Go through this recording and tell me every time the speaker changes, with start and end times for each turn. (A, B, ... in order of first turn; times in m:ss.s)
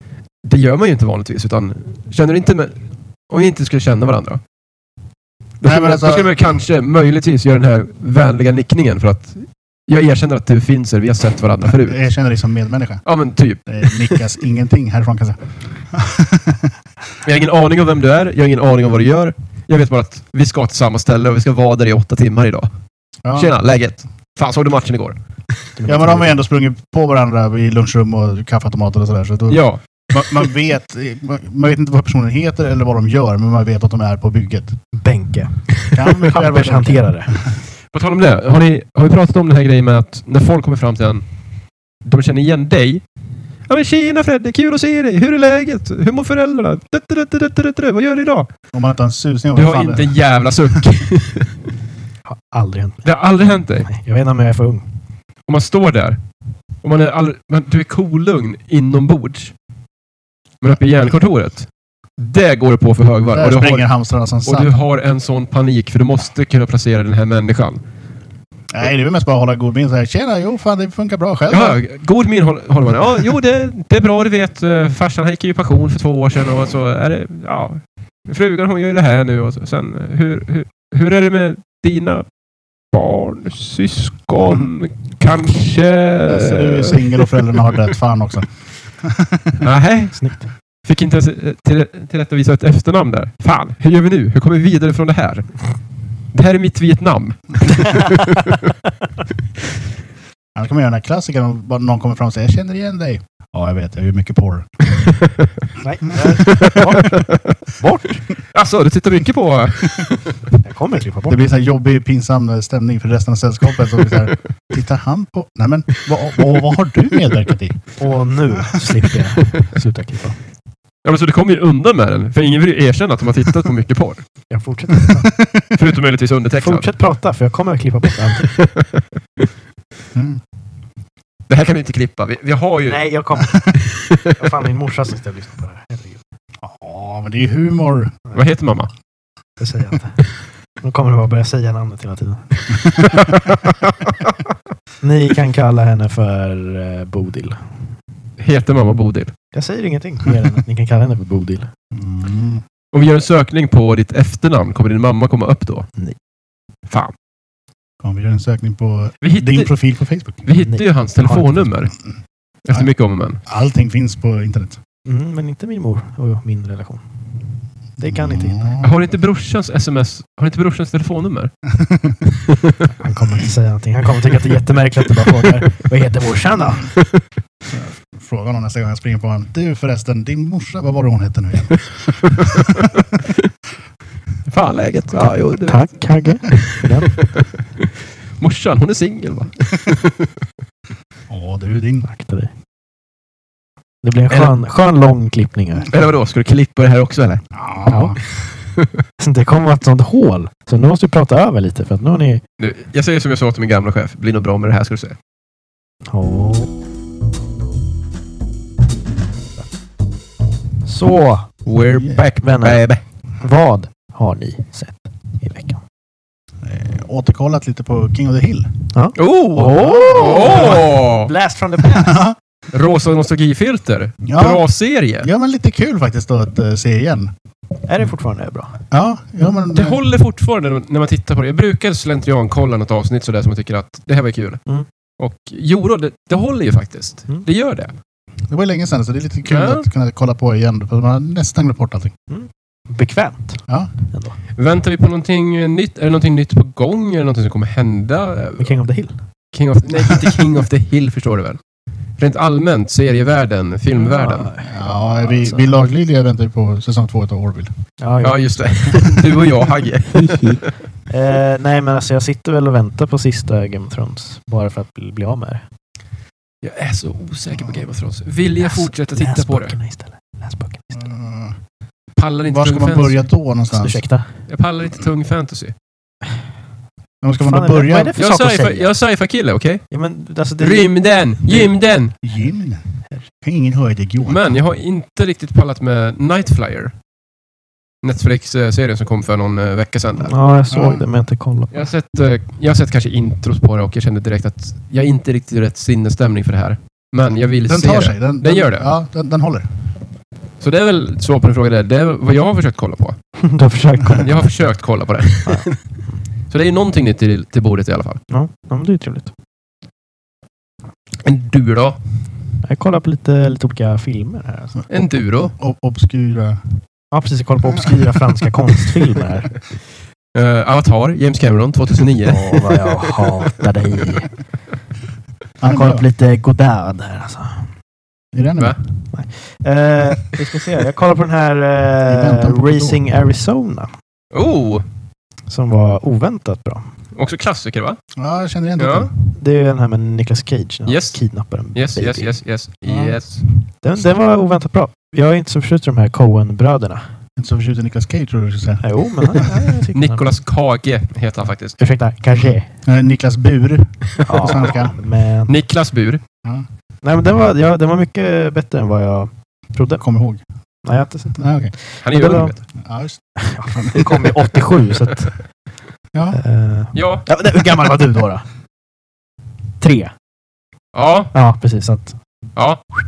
0:00.4-0:04.4 A
0:05.6-0:12.0 A
0:05.6-0:06.3 B
0:11.6-0:13.0 B
0:13.0-0:14.2 A
0:13.7-0:16.7 B
0:17.2-0:22.7 A
0:23.2-0:23.5 B
0:23.3-0:25.2 A
0:25.8-0:26.4 C
0:25.8-0:34.8 B
0:29.5-0:29.8 A
0:35.0-0:37.3 C
0:35.9-0:37.6 B
0:37.9-0:41.2 A
0:42.0-0:43.0 A
0:43.7-0:48.5 A
0:48.7-0:50.2 B
0:49.5-0:51.6 A
0:52.3-0:53.0 C
0:53.0-0:53.9 A
0:53.8-0:54.8 C
0:55.5-0:56.2 A
0:56.8-0:59.5 A
1:00.6-1:03.9 A
1:03.3-1:04.7 B
1:04.4-1:07.8 A
1:08.7-1:11.8 B
1:11.5-1:22.2 A
1:22.9-1:27.3 A
1:26.2-1:28.5 B
1:29.0-1:29.6 B
1:29.6-1:35.7 A
1:30.1-1:30.5 C
1:36.3-1:38.6 A
1:40.5-1:44.8 B
1:45.8-1:48.2 C
1:46.5-1:47.4 A
1:48.5-1:50.4 A
1:50.6-1:51.4 C
1:51.3-1:57.8 B
1:58.0-2:00.4 C
2:01.0-2:04.2 A
2:04.5-2:05.3 C
2:05.7-2:06.9 A
2:06.6-2:08.5 C
2:08.4-2:09.4 A
2:10.1-2:10.4 B
2:11.5-2:13.0 A
2:12.9-2:13.7 C
2:13.7-2:14.3 A
2:14.3-2:16.2 C
2:16.6-2:18.2 B
2:18.3-2:18.9 A
2:19.6-2:20.2 C
2:20.8-2:23.1 C
2:22.9-2:24.3 A
2:25.0-2:27.6 C
2:28.4-2:29.3 A
2:29.5-2:31.7 C
2:31.9-2:32.6 B
2:32.9-2:35.9 A
2:38.0-2:40.4 B
2:39.2-2:39.7 A
2:40.4-2:41.9 A
2:40.6-2:41.7 C
2:42.6-2:43.4 A
2:43.4-2:44.8 B
2:45.0-2:47.0 C
2:48.0-2:48.9 B
2:48.0-2:48.7 C
2:48.8-2:51.5 A
2:51.8-2:52.1 B
2:53.0-2:56.9 C
2:57.7-3:02.9 B
3:04.4-3:05.9 A
3:05.6-3:07.2 C
3:07.1-3:07.8 A
3:08.4-3:10.3 A
3:11.3-3:12.1 B
3:12.1-3:12.5 C
3:14.0-3:15.9 C
3:14.3-3:14.5 A
3:15.9-3:17.4 A
3:17.5-3:18.2 B
3:17.8-3:18.2 C
3:19.2-3:22.4 C
3:22.6-3:25.2 A
3:26.1-3:26.7 C
3:30.8-3:31.6 C
3:31.6-3:33.0 A
3:32.2-3:32.8 C
3:33.4-3:35.8 C
3:36.6-3:38.7 B
3:38.9-3:42.2 C
3:39.1-3:41.3 A
3:41.8-3:42.4 B
3:42.7-3:45.3 A
3:44.2-3:44.6 B
3:45.2-3:47.3 B
3:47.9-3:48.8 C
3:48.9-3:50.0 B
3:49.7-3:54.6 A
3:55.2-3:57.9 A
3:58.5-4:02.1 B
3:59.5-3:59.8 A
4:02.3-4:04.4 C
4:04.6-4:08.7 A
4:08.6-4:09.2 C
4:09.5-4:11.6 A
4:12.2-4:14.5 A
4:14.0-4:15.6 C
4:14.6-4:17.7 B
4:18.0-4:18.9 C
4:18.2-4:20.7 A
4:20.1-4:25.6 C
4:26.6-4:29.7 A
4:28.6-4:31.0 C
4:30.9-4:31.6 B
4:32.2-4:33.2 A
4:32.5-4:34.0 B
4:33.7-4:34.3 C
4:34.5-4:35.7 A
4:37.2-4:38.1 B
4:37.4-4:38.9 C
4:38.2-4:39.8 A
4:39.9-4:40.9 C
4:40.6-4:42.1 A
4:42.2-4:42.8 B
4:43.4-4:44.5 B
4:44.2-4:46.9 A
4:48.0-4:50.3 A
4:50.2-4:51.9 C
4:50.7-4:51.0 B
4:51.7-4:58.9 A
4:57.7-4:59.6 B
5:00.6-5:03.2 A
5:03.4-5:04.3 C
5:04.2-5:08.2 A
5:05.4-5:06.2 C
5:08.3-5:09.3 C
5:11.2-5:12.0 A
5:12.6-5:14.8 C
5:14.9-5:15.5 A
5:15.5-5:16.6 B
5:17.1-5:19.5 C
5:20.3-5:23.1 A
5:22.2-5:24.3 C
5:25.6-5:26.0 B
5:25.6-5:27.7 C
5:28.3-5:28.8 B
5:29.1-5:33.9 C
5:32.1-5:33.0 B
5:34.3-5:34.8 A
5:35.5-5:36.8 C
5:37.1-5:38.0 A
5:38.2-5:39.1 B
5:38.8-5:39.1 A
5:39.4-5:42.3 C
5:40.8-5:43.4 A
5:42.9-5:43.2 B
5:43.8-5:47.0 C
5:47.4-5:49.5 B
5:48.8-5:50.3 C
5:49.9-5:51.8 A
5:51.8-5:52.7 C
5:52.8-5:55.0 B
5:54.2-5:55.5 C
5:54.4-5:54.7 A
5:55.5-5:56.2 A
5:57.0-6:00.0 C
6:00.0-6:00.4 B
6:00.8-6:02.5 C
6:01.4-6:01.7 B
6:02.0-6:02.6 A
6:02.7-6:04.1 B
6:03.4-6:05.4 C
6:06.1-6:06.4 B
6:06.3-6:08.4 C
6:06.9-6:07.2 A
6:09.8-6:10.1 C
6:10.9-6:11.3 A
6:11.3-6:12.2 C
6:12.6-6:12.8 A